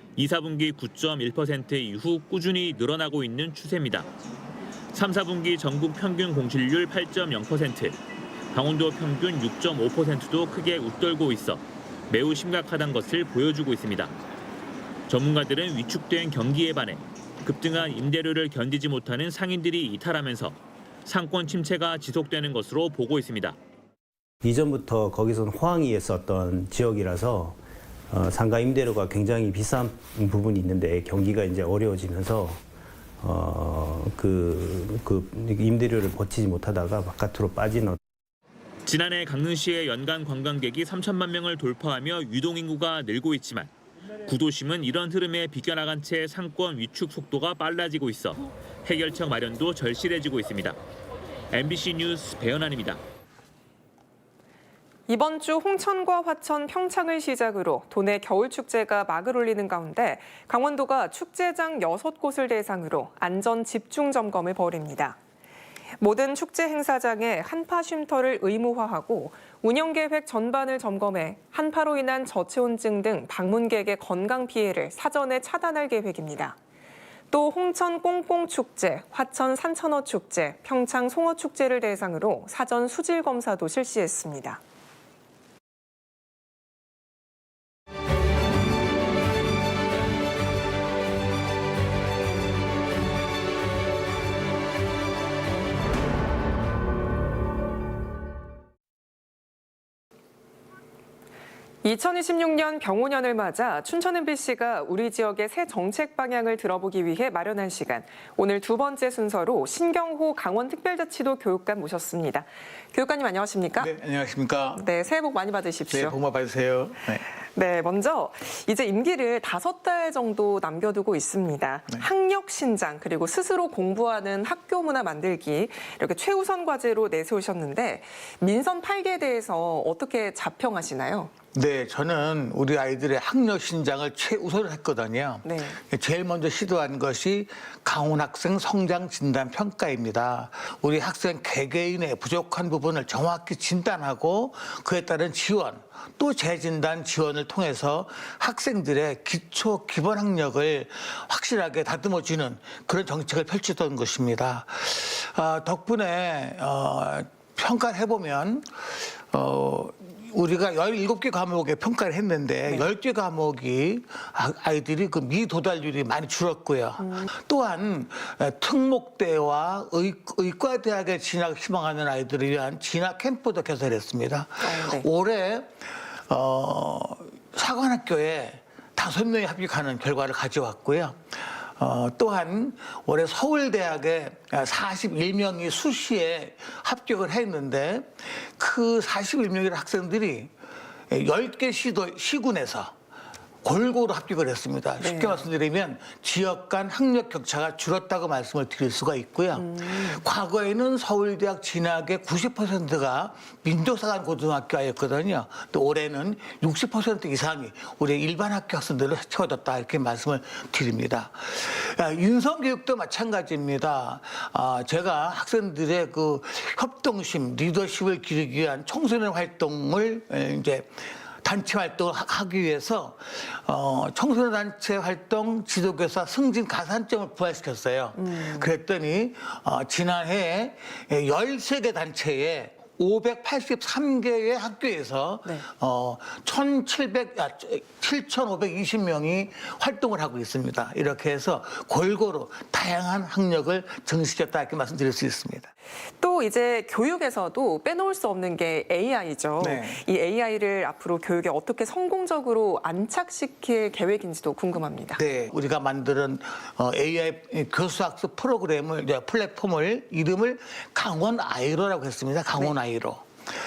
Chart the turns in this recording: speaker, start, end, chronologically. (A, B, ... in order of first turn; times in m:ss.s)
0:00.2-0:04.1 A
0:04.9-0:08.0 A
0:08.5-0:14.1 A
0:15.1-0:23.6 A
0:24.4-0:27.6 B
0:28.1-0:32.6 B
0:33.2-0:38.0 B
0:38.8-0:43.7 A
0:44.3-0:50.8 A
0:51.5-0:53.0 A
0:55.1-1:05.2 C
1:06.0-1:16.6 C
1:17.3-1:24.6 C
1:41.8-1:53.9 C
1:53.8-1:54.8 D
1:54.7-1:56.2 C
1:55.9-1:57.2 D
1:57.5-2:11.3 C
2:11.5-3:10.5 D
2:15.4-2:15.8 C
2:47.0-2:47.3 C
2:54.6-2:55.1 C
3:11.1-3:12.9 D
3:13.6-4:05.7 D
3:15.0-3:15.4 C
3:19.5-3:20.2 C
3:48.2-3:48.7 C
4:06.2-4:15.2 C
4:09.6-4:10.0 D
4:15.1-4:23.3 D